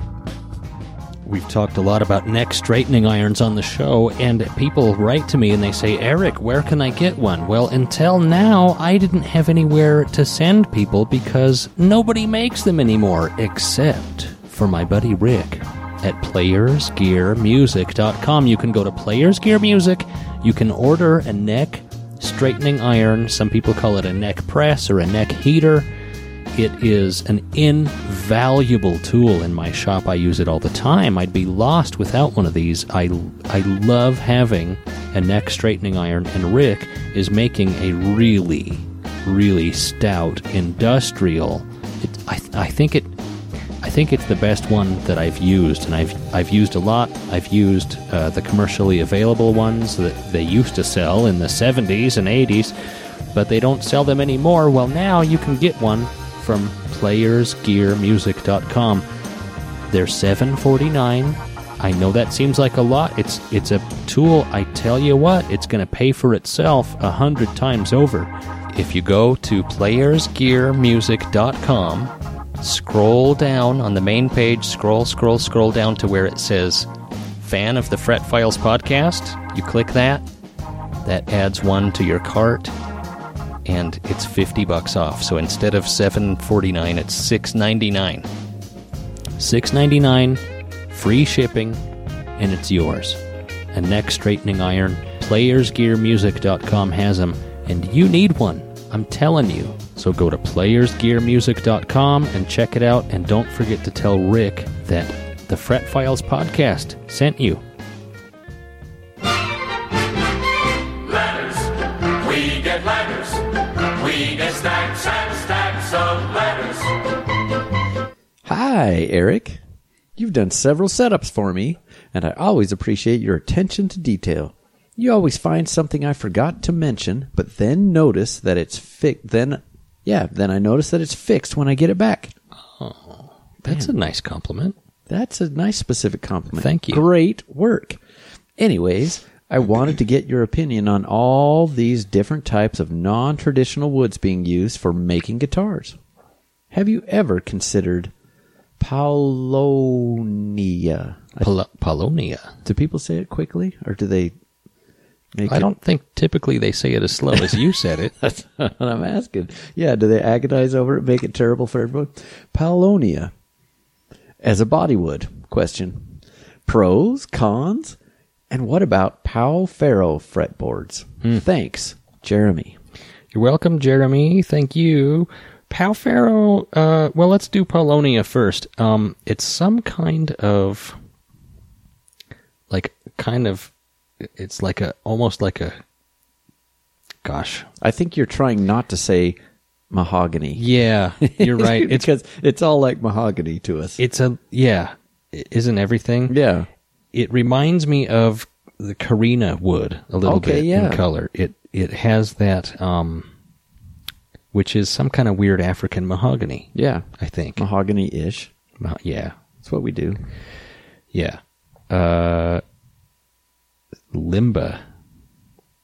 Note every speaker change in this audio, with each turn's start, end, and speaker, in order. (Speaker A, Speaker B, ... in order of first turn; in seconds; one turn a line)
Speaker A: 1.2-25.9
Speaker A: 26.5-43.1
Speaker A: 43.8-52.8
Speaker A: 53.3-59.0
Speaker A: 59.9-76.9
Speaker A: 77.4-80.2
Speaker A: 81.0-82.7
Speaker A: 83.7-88.3
Speaker A: 89.4-91.8
Speaker A: 92.4-93.2
Speaker A: 93.7-107.6
Speaker B: 111.1-116.9
Speaker C: 118.5-119.6
Speaker C: 120.2-132.3
Speaker A: 132.8-134.8
Speaker C: 133.7-133.9
Speaker C: 135.1-138.0
Speaker A: 136.6-137.0
Speaker C: 138.6-146.0
Speaker C: 146.7-148.1
Speaker C: 148.8-151.5
Speaker A: 151.4-152.6
Speaker C: 152.7-154.3
Speaker C: 155.3-155.7
Speaker A: 155.5-158.1
Speaker C: 157.3-163.3
Speaker C: 164.4-168.0
Speaker C: 168.5-172.8
Speaker A: 173.3-181.0
Speaker A: 182.7-185.8
Speaker A: 187.2-187.7
Speaker C: 187.8-189.4
Speaker C: 189.9-190.6
Speaker A: 190.6-192.1
Speaker C: 191.2-194.0
Speaker A: 194.0-196.4
Speaker C: 196.3-196.7
Speaker A: 197.1-203.3
Speaker C: 200.2-201.0
Speaker A: 204.5-207.7
Speaker C: 206.7-208.5
Speaker A: 208.8-209.4
Speaker C: 209.6-210.2
Speaker A: 211.1-212.6
Speaker A: 214.1-214.8